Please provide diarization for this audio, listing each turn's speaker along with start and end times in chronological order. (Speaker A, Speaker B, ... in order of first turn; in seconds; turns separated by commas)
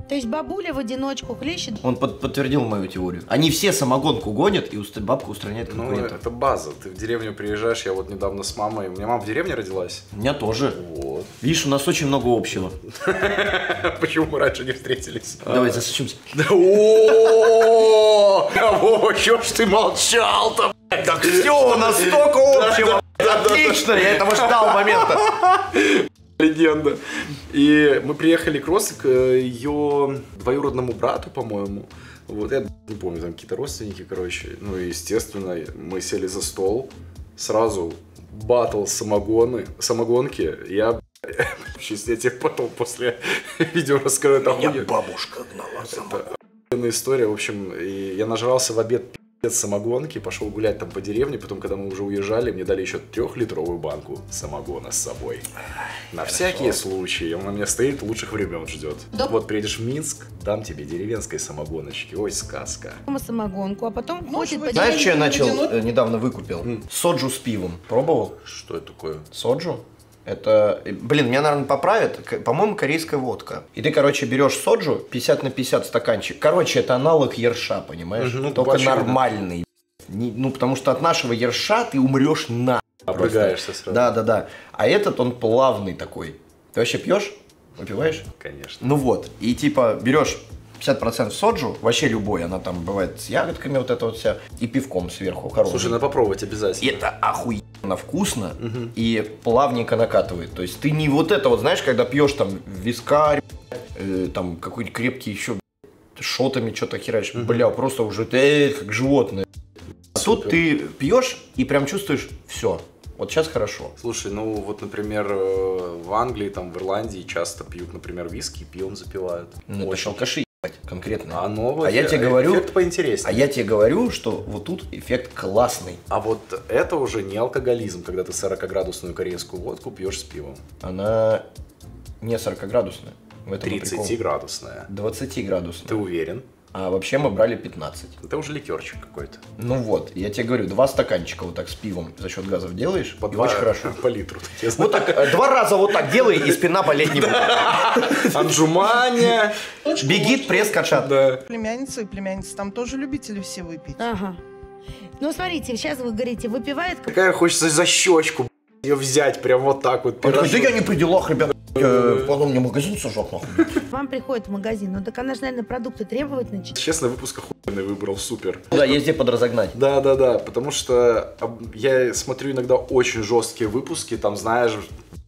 Speaker A: 0.1-1.8, Speaker B: 1.8-6.2, Speaker C: 5.7-10.1, Speaker B: 10.1-10.8, Speaker C: 10.7-11.3, Speaker B: 11.4-12.8, Speaker C: 12.9-22.0, Speaker B: 15.4-16.2, Speaker B: 20.9-25.3, Speaker C: 22.5-44.9, Speaker B: 44.4-46.2, Speaker C: 45.9-55.5, Speaker C: 56.1-63.0, Speaker B: 56.3-56.8, Speaker A: 63.1-65.4, Speaker D: 64.2-65.7, Speaker B: 64.7-68.4, Speaker C: 68.4-69.3, Speaker B: 69.3-88.3, Speaker C: 78.2-79.2, Speaker C: 83.1-84.1, Speaker C: 88.4-88.8, Speaker B: 88.8-96.0, Speaker C: 95.6-97.0, Speaker B: 96.8-105.6, Speaker C: 98.6-98.9, Speaker B: 106.2-109.5, Speaker C: 107.3-107.7, Speaker B: 110.1-113.9, Speaker C: 114.0-120.3, Speaker B: 119.7-122.7, Speaker C: 121.3-123.5, Speaker B: 123.2-126.0, Speaker C: 126.1-130.6, Speaker B: 130.8-131.4, Speaker B: 132.2-134.2, Speaker C: 133.6-134.9, Speaker B: 134.9-136.0, Speaker C: 135.8-136.4, Speaker B: 136.7-138.1, Speaker C: 138.2-139.4, Speaker B: 139.6-143.9, Speaker C: 143.2-145.3, Speaker B: 144.7-148.4, Speaker C: 146.1-151.4, Speaker B: 149.9-151.1, Speaker D: 151.5-154.0, Speaker A: 154.0-154.4, Speaker A: 155.2-157.1, Speaker C: 157.1-160.8, Speaker B: 160.2-163.8, Speaker C: 161.8-162.2, Speaker A: 163.9-166.7, Speaker C: 166.7-168.7, Speaker B: 168.7-169.8, Speaker C: 169.7-174.9